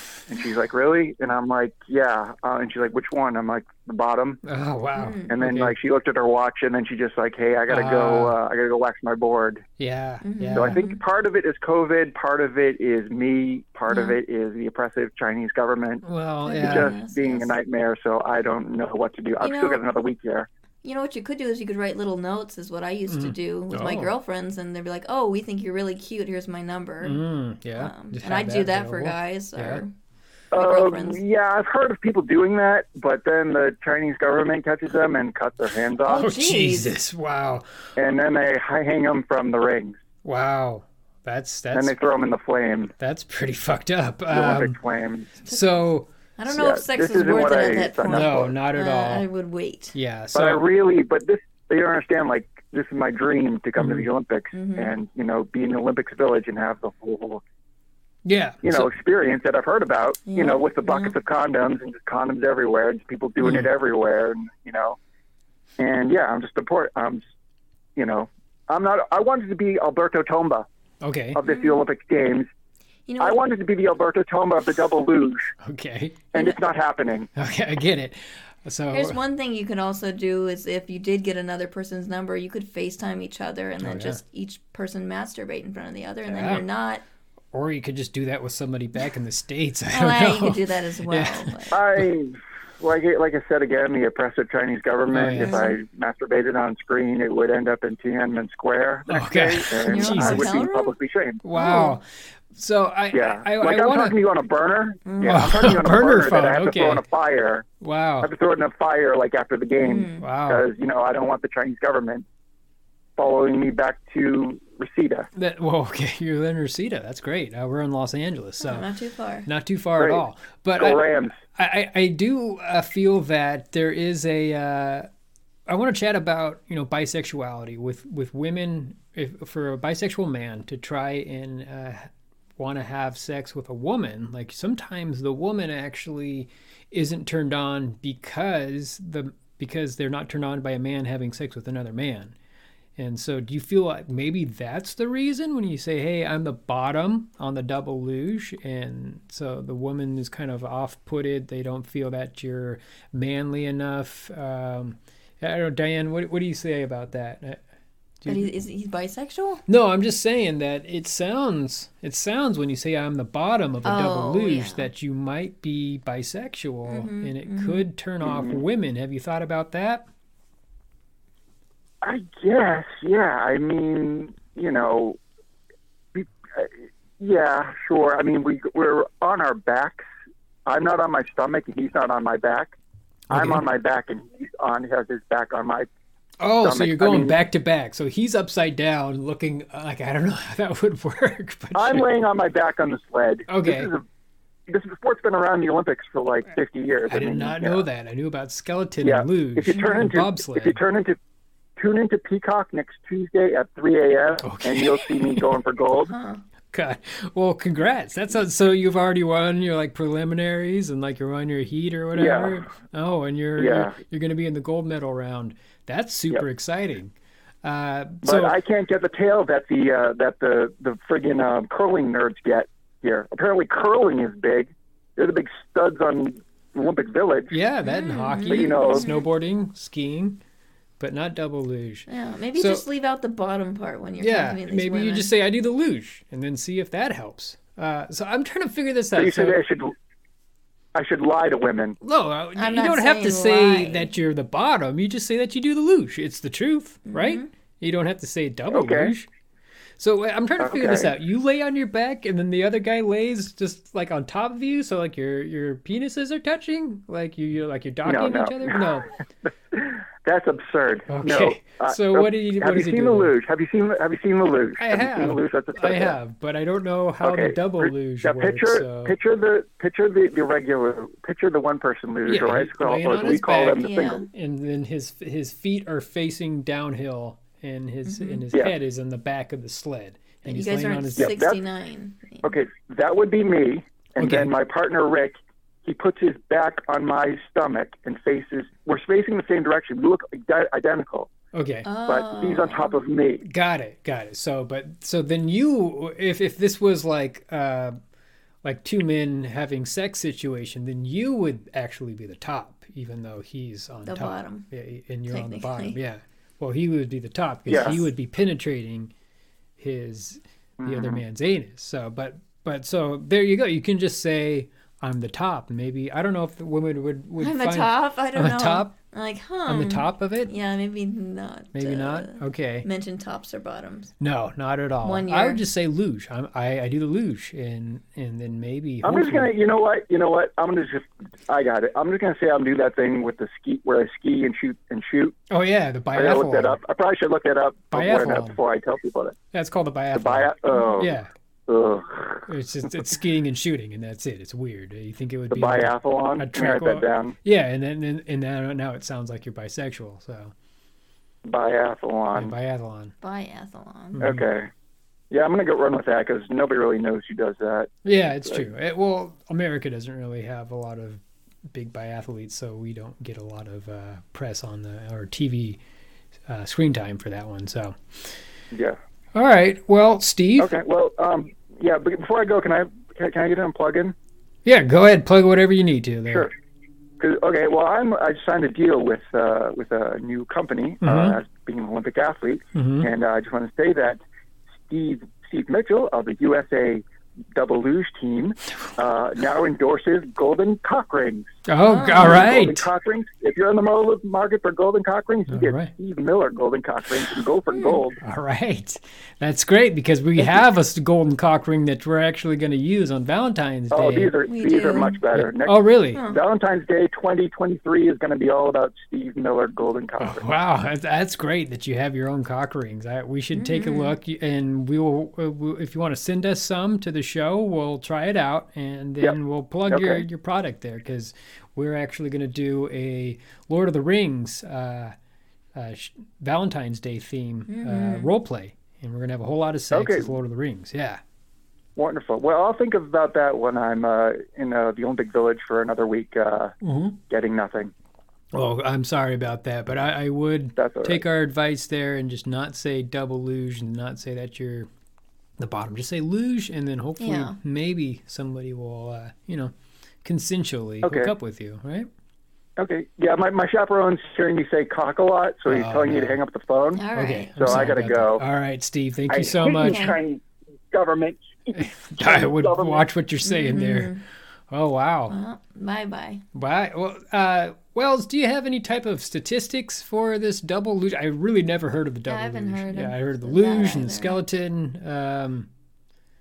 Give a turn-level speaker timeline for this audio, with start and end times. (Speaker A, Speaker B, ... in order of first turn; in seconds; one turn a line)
Speaker A: 0.3-4.4
Speaker B: 4.4-5.8
Speaker C: 5.0-5.3
Speaker A: 5.3-9.6
Speaker B: 7.7-8.4
Speaker B: 9.8-10.8
Speaker C: 10.2-11.0
Speaker A: 10.5-20.5
Speaker C: 13.9-14.2
Speaker B: 16.0-16.9
Speaker C: 16.4-17.5
Speaker C: 19.4-19.8
Speaker C: 20.8-27.2
Speaker B: 23.1-24.1
Speaker B: 27.0-29.8
Speaker C: 27.8-29.9
Speaker A: 30.5-36.3
Speaker C: 30.5-31.2
Speaker C: 36.0-36.9
Speaker B: 36.1-37.6
Speaker A: 38.0-40.0
Speaker B: 40.2-41.9
Speaker A: 41.7-42.9
Speaker B: 43.0-44.8
Speaker A: 44.3-45.4
Speaker B: 45.4-46.1
Speaker C: 46.4-50.0
Speaker A: 46.5-48.5
Speaker B: 48.1-49.3
Speaker B: 49.9-50.6
Speaker A: 50.3-57.4
Speaker B: 53.8-54.1
Speaker C: 54.5-54.9
Speaker B: 58.2-58.9
Speaker A: 58.6-65.0
Speaker C: 60.3-61.1
Speaker B: 63.4-63.7
Speaker A: 65.8-67.2
Speaker A: 68.0-70.7
Speaker B: 71.0-71.4
Speaker A: 71.3-72.5
Speaker C: 71.4-71.8
Speaker C: 73.1-73.4
Speaker A: 73.2-75.5
Speaker B: 75.6-76.2
Speaker A: 76.3-77.3
Speaker B: 77.3-79.2
Speaker C: 78.9-87.0
Speaker B: 83.8-84.2
Speaker B: 86.3-86.6
Speaker B: 87.5-92.1
Speaker C: 89.9-91.8
Speaker A: 91.7-101.4
Speaker B: 95.1-95.6
Speaker C: 95.4-95.8
Speaker B: 99.1-100.6
Speaker C: 99.8-100.9
Speaker B: 101.4-104.2
Speaker C: 101.5-102.0
Speaker A: 103.1-107.7
Speaker C: 105.0-105.4
Speaker B: 105.2-107.0
Speaker B: 107.8-108.3
Speaker A: 108.2-112.2
Speaker C: 109.8-110.3
Speaker B: 110.2-110.7
Speaker A: 113.2-115.3
Speaker B: 115.3-118.9
Speaker C: 118.6-119.5
Speaker B: 119.5-125.1
Speaker A: 120.8-121.4
Speaker B: 125.7-142.3
Speaker B: 143.0-157.6
Speaker B: 158.2-158.5
Speaker C: 158.2-159.6
Speaker B: 159.7-170.1
Speaker C: 163.8-164.9
Speaker C: 166.9-167.8
Speaker A: 168.2-168.6
Speaker A: 172.0-175.2
Speaker A: 176.1-180.1
Speaker A: 180.7-182.7
Speaker B: 183.3-183.6
Speaker A: 183.3-185.9
Speaker B: 186.4-192.1
Speaker A: 186.6-187.3
Speaker A: 191.7-194.0
Speaker B: 193.5-193.9
Speaker A: 194.7-197.8
Speaker B: 197.1-200.8
Speaker A: 199.0-201.2
Speaker C: 199.7-200.0
Speaker A: 201.8-206.1
Speaker B: 204.4-205.6
Speaker C: 206.1-206.4
Speaker B: 206.7-218.6
Speaker A: 212.1-212.6
Speaker A: 213.6-213.9
Speaker A: 218.2-227.5
Speaker B: 227.5-230.4
Speaker C: 227.8-229.2
Speaker A: 228.4-229.1
Speaker B: 231.0-232.8
Speaker C: 232.1-235.3
Speaker B: 234.2-239.6
Speaker A: 239.2-239.9
Speaker A: 240.9-242.0
Speaker B: 242.0-249.3
Speaker C: 242.6-244.1
Speaker C: 247.1-247.5
Speaker A: 248.7-249.1
Speaker B: 250.0-259.1
Speaker A: 250.6-251.1
Speaker A: 258.0-258.9
Speaker A: 259.7-266.1
Speaker B: 261.1-263.3
Speaker B: 264.8-269.1
Speaker A: 267.2-274.2
Speaker B: 272.2-281.4
Speaker C: 273.8-274.3
Speaker C: 278.1-278.4
Speaker C: 280.4-282.5
Speaker A: 281.2-281.6
Speaker A: 282.4-291.3
Speaker B: 284.2-284.5
Speaker B: 291.5-291.9
Speaker C: 291.8-293.0
Speaker A: 292.1-293.4
Speaker B: 293.4-298.0
Speaker B: 298.6-309.1
Speaker C: 304.0-304.7
Speaker C: 305.3-306.0
Speaker A: 307.7-308.0
Speaker B: 309.8-318.9
Speaker A: 310.8-311.2
Speaker C: 317.4-324.1
Speaker B: 319.6-320.5
Speaker B: 321.7-322.9
Speaker B: 324.2-329.5
Speaker C: 325.0-325.6
Speaker A: 329.0-335.4
Speaker B: 335.5-336.8
Speaker A: 336.1-339.4
Speaker B: 337.9-338.6
Speaker B: 339.5-341.3
Speaker A: 340.1-341.1
Speaker A: 341.7-342.5
Speaker B: 342.5-350.5
Speaker A: 345.5-347.3
Speaker A: 351.4-352.5
Speaker B: 352.3-353.1
Speaker C: 353.2-354.2
Speaker B: 354.1-354.4
Speaker A: 354.2-354.7
Speaker A: 355.3-357.9
Speaker B: 358.0-365.8
Speaker B: 366.5-368.3
Speaker A: 368.7-369.0
Speaker B: 369.3-370.8
Speaker A: 370.6-374.1
Speaker B: 374.6-376.5
Speaker A: 377.2-384.2
Speaker B: 381.0-381.4
Speaker B: 382.7-383.1
Speaker A: 384.9-391.5
Speaker B: 391.7-392.9
Speaker C: 391.9-392.4
Speaker A: 392.1-398.2
Speaker B: 395.5-395.9
Speaker C: 397.7-398.0
Speaker B: 398.2-404.3
Speaker A: 403.9-410.4
Speaker C: 404.5-405.2
Speaker B: 405.3-406.2
Speaker C: 406.1-406.4
Speaker B: 410.2-425.1
Speaker C: 413.5-414.1
Speaker A: 419.9-420.2
Speaker B: 425.7-431.2
Speaker C: 427.7-428.3
Speaker A: 429.9-430.3
Speaker A: 431.9-436.7
Speaker B: 436.8-437.2
Speaker A: 437.3-437.9
Speaker B: 438.5-444.9
Speaker A: 440.8-441.2
Speaker B: 445.6-449.7
Speaker C: 447.2-447.6
Speaker B: 450.2-452.1
Speaker A: 451.0-451.3
Speaker A: 452.8-457.0
Speaker B: 455.7-456.4
Speaker C: 456.9-457.8
Speaker B: 457.1-460.2
Speaker A: 457.6-458.4
Speaker A: 459.3-463.1
Speaker C: 459.7-460.1
Speaker B: 461.7-464.1
Speaker C: 463.4-464.2
Speaker B: 464.7-465.3
Speaker C: 465.3-466.4
Speaker B: 466.5-475.7
Speaker C: 472.3-474.4